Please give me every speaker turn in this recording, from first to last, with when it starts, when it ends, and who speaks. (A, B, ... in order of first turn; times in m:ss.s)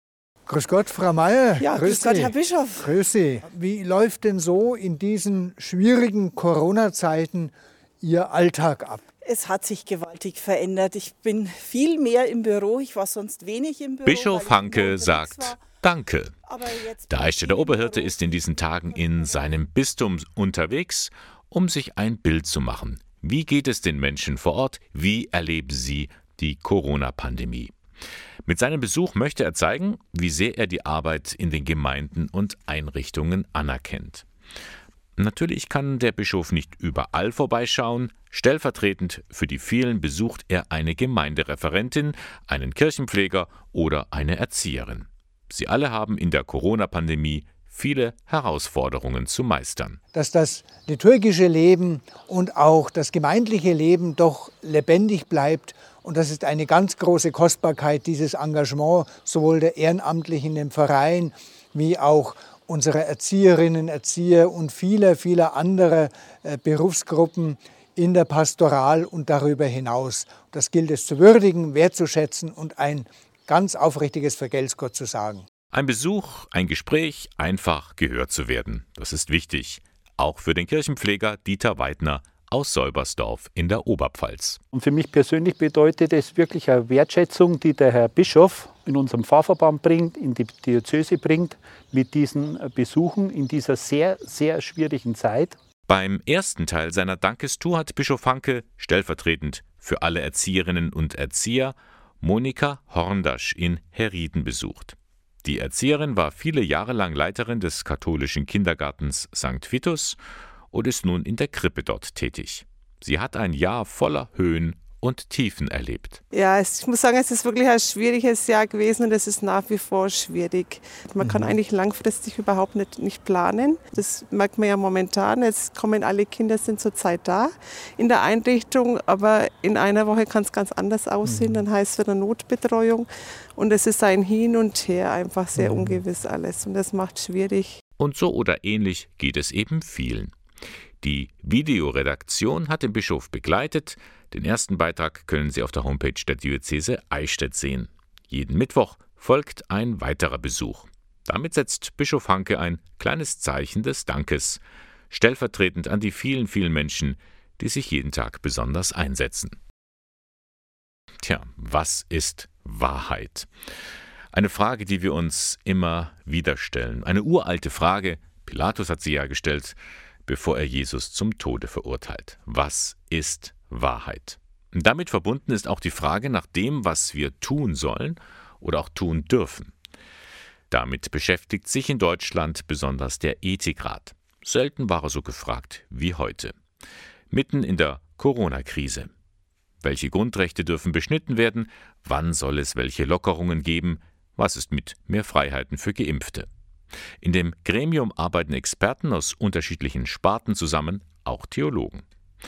0:00.5-0:09.0 A
0:01.6-0:02.8 B
0:09.2-0:15.4 B
0:14.1-0:16.4 C
0:16.5-0:17.8 B
0:17.1-0:27.7 C
0:28.4-0:34.3 C
0:35.2-0:50.0 C
0:50.1-1:15.4 A
1:15.7-1:24.6 C
1:24.7-1:35.6 D
1:35.9-1:50.2 C
1:50.7-1:56.2 C
1:56.3-2:17.8 E
2:18.0-2:20.4 C
2:21.0-2:39.6 C
2:41.2-2:43.5 C
2:44.3-2:59.7 C
3:00.7-3:06.6 C
3:07.3-3:09.1 C
3:09.8-3:16.5 C
3:17.2-3:22.0 C